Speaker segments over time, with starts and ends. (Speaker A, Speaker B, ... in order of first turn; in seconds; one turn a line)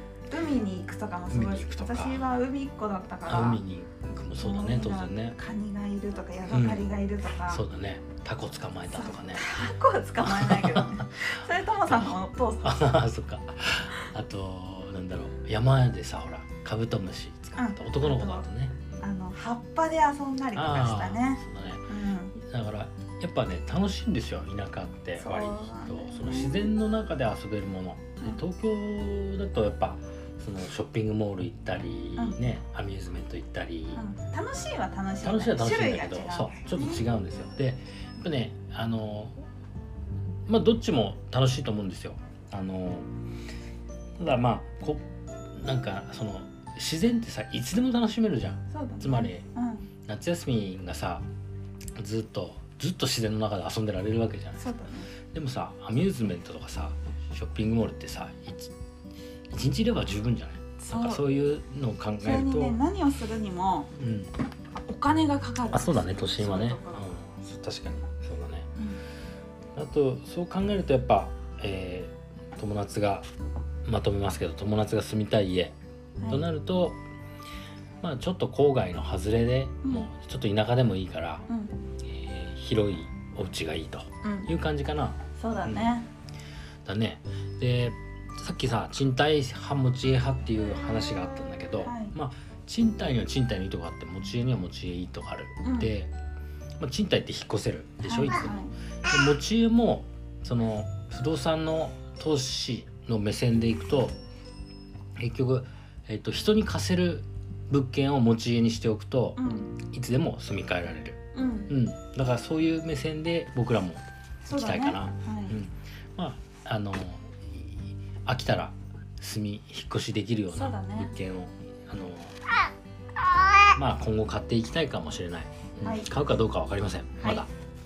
Speaker A: 0.3-3.6
Speaker B: 1.3-2.2
Speaker B: 3.3-5.4
Speaker A: 4.4-7.6
Speaker B: 6.5-6.9
Speaker B: 7.5-9.4
Speaker A: 8.9-12.9
Speaker B: 10.2-11.2
Speaker B: 12.6-18.9
Speaker A: 17.6-18.5
Speaker A: 19.0-22.4
Speaker B: 20.6-34.0
Speaker A: 25.2-26.7
Speaker A: 33.9-37.0
Speaker B: 35.2-39.4
Speaker B: 40.5-43.1
Speaker B: 44.2-45.0
Speaker B: 45.5-49.5
Speaker A: 48.7-49.9
Speaker B: 50.1-51.2
Speaker B: 52.0-54.6
Speaker A: 54.6-55.1
Speaker B: 55.3-58.7
Speaker B: 59.5-62.8
Speaker A: 60.8-61.2
Speaker A: 62.2-63.9
Speaker B: 64.0-64.3
Speaker A: 64.8-67.1
Speaker B: 65.7-68.7
Speaker B: 69.8-73.3
Speaker B: 73.8-75.8
Speaker A: 76.2-76.5
Speaker B: 76.3-77.0
Speaker B: 78.0-81.5
Speaker A: 81.5-81.8
Speaker B: 82.0-85.9
Speaker A: 84.2-84.5
Speaker A: 85.3-86.1
Speaker B: 86.8-96.1
Speaker A: 91.8-92.1
Speaker A: 95.6-95.9
Speaker B: 96.8-104.2
Speaker A: 98.0-98.7
Speaker B: 105.2-111.2
Speaker A: 109.4-109.7
Speaker A: 111.3-111.7
Speaker B: 111.7-122.4
Speaker A: 114.5-115.6
Speaker A: 120.5-121.1
Speaker B: 123.8-127.5
Speaker A: 125.8-126.1
Speaker A: 127.2-127.5